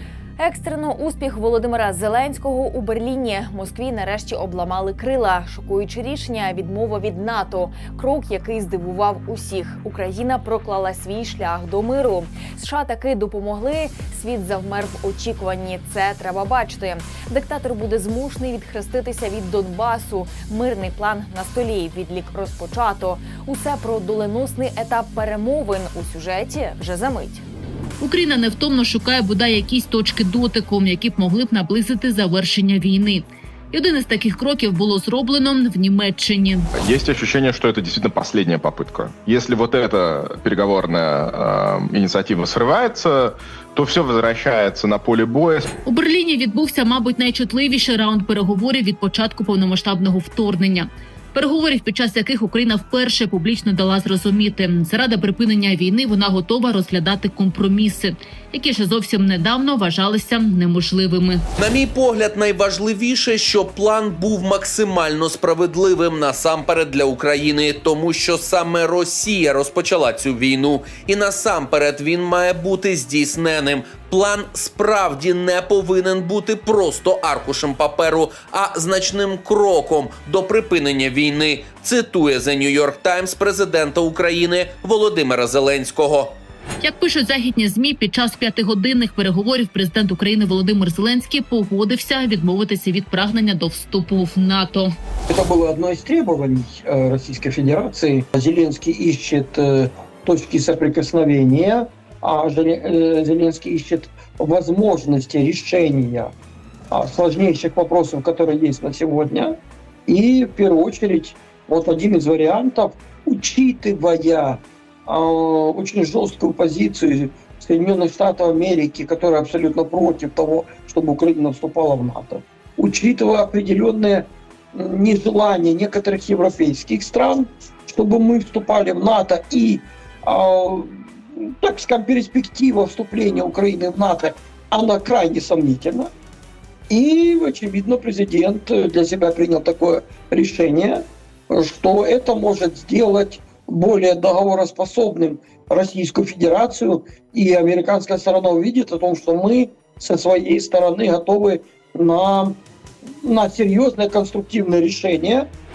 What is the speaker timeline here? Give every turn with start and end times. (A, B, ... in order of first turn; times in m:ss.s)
0:00.4-0:27.4 A
0:28.0-0:36.7 B
0:36.7-0:45.7 C
0:45.8-1:01.4 B
1:01.6-1:26.4 D
1:26.8-1:34.9 B
1:35.3-1:46.3 E
1:46.9-1:49.6 E
1:50.1-2:16.1 E
2:16.9-2:32.6 E
2:33.2-2:35.5 E